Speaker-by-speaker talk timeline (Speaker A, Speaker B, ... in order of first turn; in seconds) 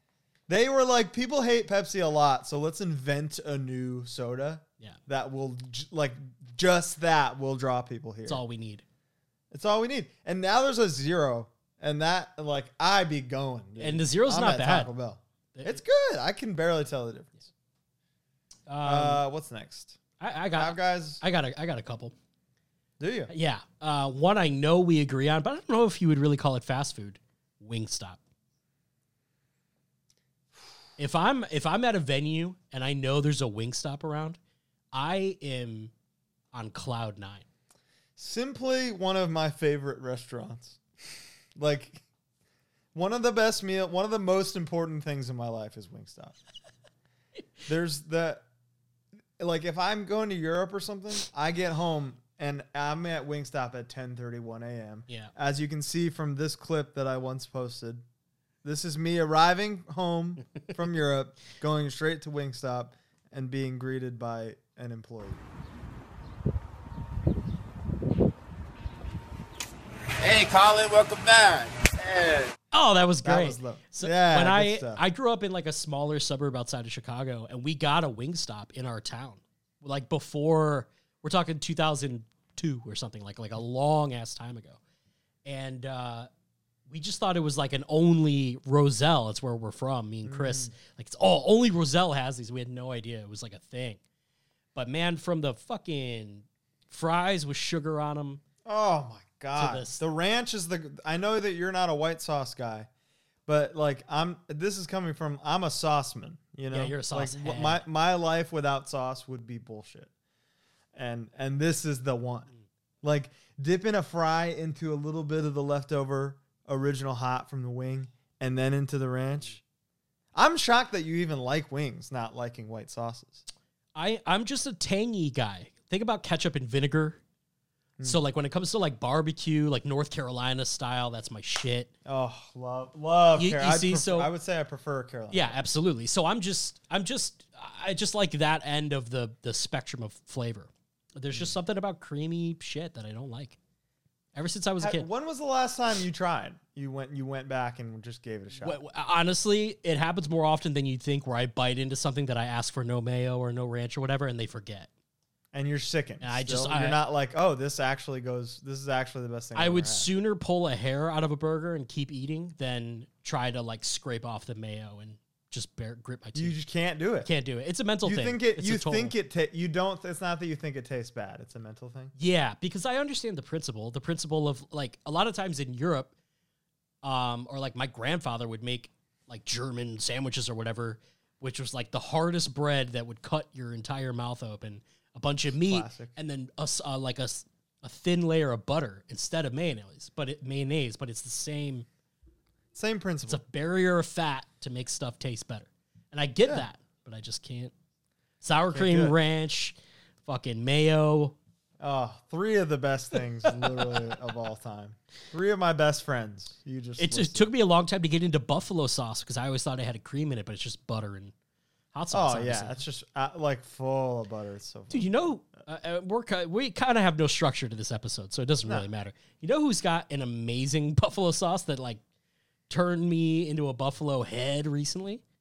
Speaker A: 0.5-8.4, 9.5-17.5, 18.8-20.0, 20.6-21.2, 23.0-23.3, 38.2-40.8, 41.5-42.0, 42.9-46.4, 47.7-48.4, 49.4-58.0, 58.6-65.4, 73.2-75.0, 90.2-90.7, 98.6-102.9, 103.5-110.1, 110.9-112.5, 113.0-119.6, 120.3-123.5, 132.0-135.6, 144.8-148.8, 155.5-160.1, 166.3-167.3, 168.0-172.1, 185.6-186.1, 192.7-193.4, 198.7-199.1, 201.8-207.5, 212.1-215.1
Speaker B: 8.2-8.8, 13.8-14.9, 15.5-15.8, 18.7-19.2, 20.2-22.1, 23.3-28.2, 31.0-34.4, 34.9-35.9, 36.5-37.4, 72.7-84.8, 85.4-86.3, 86.9-94.0, 94.7-98.4, 99.5-100.0, 106.7-107.8, 123.9-127.2, 128.0-131.9, 133.4-134.3, 135.3-143.6, 144.3-145.1, 148.6-154.9, 156.2-157.0, 159.5-166.6, 167.2-169.1, 172.2-176.1, 177.0-191.9, 193.3-197.7, 198.4-201.4, 203.6-203.8, 207.0-211.3, 211.9-212.8, 214.9-222.0, 222.7-225.2
Speaker C: 70.2-72.5